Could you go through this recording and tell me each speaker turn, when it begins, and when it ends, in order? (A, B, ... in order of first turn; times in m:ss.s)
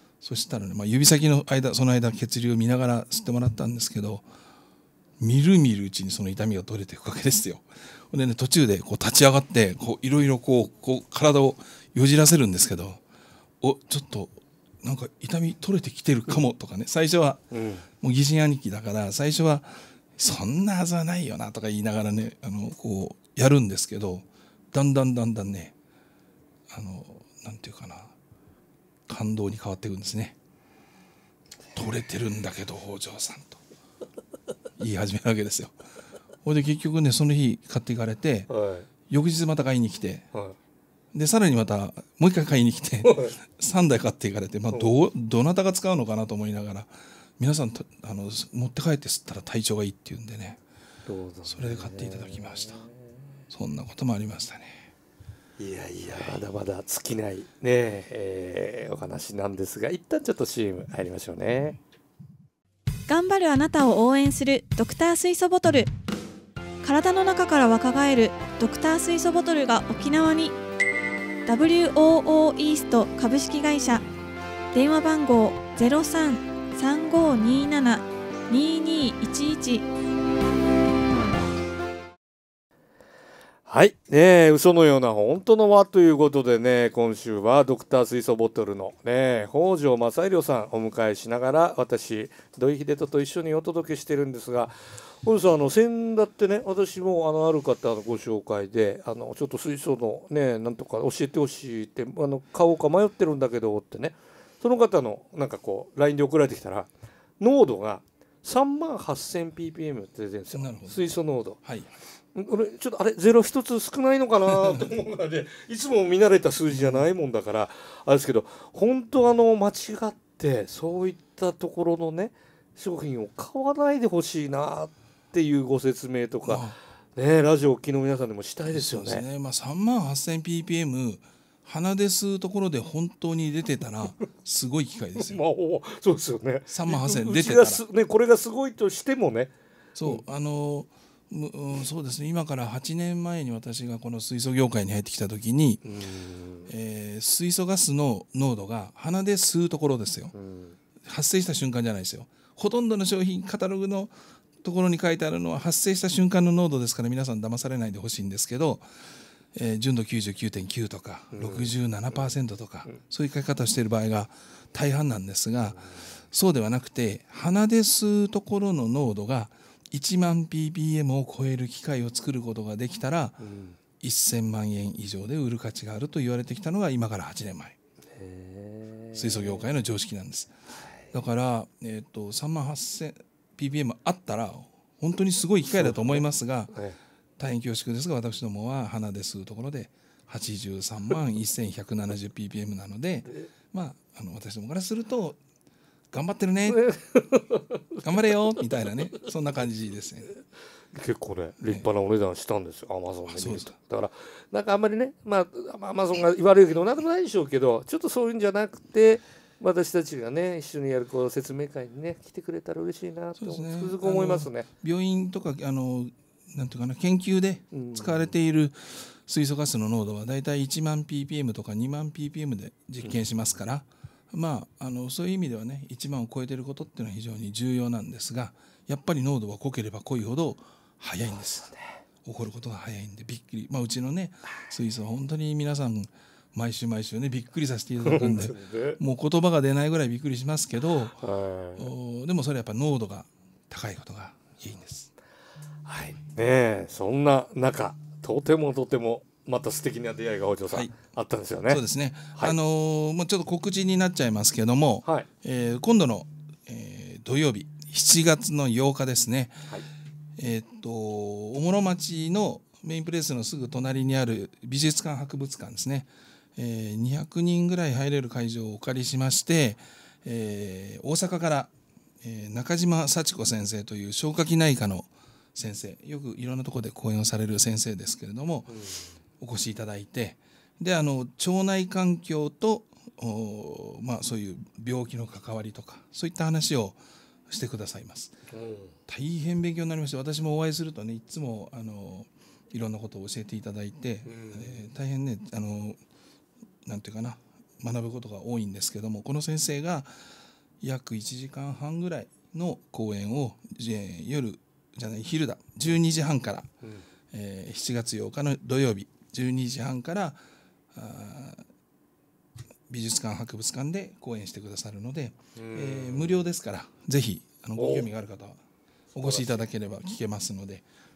0:00.2-0:04.2 A
0:05.2-0:13.0 A
0:13.6-0:17.4 A
0:17.5-0:17.9 B
0:18.0-0:25.7 A
0:26.7-0:28.1 A
0:29.1-0:30.4 A
0:31.8-0:33.6 A
0:34.8-0:35.8 A
0:36.4-0:38.5 A
0:38.5-0:38.9 B
0:39.1-0:40.3 A
0:41.1-0:50.6 A
0:43.0-0:43.4 B
0:51.1-0:53.0 B
0:51.4-0:52.8 A
0:53.5-0:54.9 A
0:55.6-1:01.8 B
1:03.1-1:05.9 C
1:06.8-1:10.6 C
1:11.5-1:14.0 C
1:14.7-1:19.8 C
1:23.7-1:51.6 B
1:50.5-1:51.0 A
1:51.6-1:51.9 A
1:52.4-2:06.6 B
1:56.7-1:57.1 A
2:06.5-2:06.8 A
2:07.2-2:09.2 B
2:08.7-2:15.4 A
2:15.2-2:19.5 B
2:16.7-2:17.8 A
2:20.0-2:25.8 A
2:25.8-2:26.7 B
2:26.7-2:30.3 A
2:30.3-2:30.8 B
2:31.0-2:38.9 A
2:39.5-2:53.4 A
2:41.3-2:41.7 B
2:53.4-2:53.8 B
2:54.0-2:57.8 A
2:58.1-2:59.7 B
2:59.1-3:00.5 A
3:01.1-3:06.7 A
3:05.7-3:07.0 B
3:07.4-3:15.4 A
3:16.1-3:16.8 A
3:16.7-3:18.0 B
3:18.0-3:20.3 A
3:20.9-3:34.7 B
3:23.3-3:23.7 A
3:33.4-3:51.7 A
3:37.7-3:38.4 B
3:52.2-4:01.2 A
3:58.0-3:59.0 B
4:01.2-4:01.9 B
4:01.8-4:05.1 A
4:05.9-4:11.8 B
4:11.7-4:19.7 A
4:20.4-4:38.7 A
4:38.7-4:39.2 B
4:39.4-4:48.4 A
4:48.5-4:49.0 B
4:49.1-4:56.0 A
4:54.2-4:54.9 B
4:56.8-5:06.7 A
5:07.3-5:10.4 A
5:10.9-5:11.7 A
5:12.9-5:18.6 A
5:15.6-5:16.4 B
5:17.8-5:18.1 B
5:19.2-5:19.7 B
5:19.2-5:20.8 A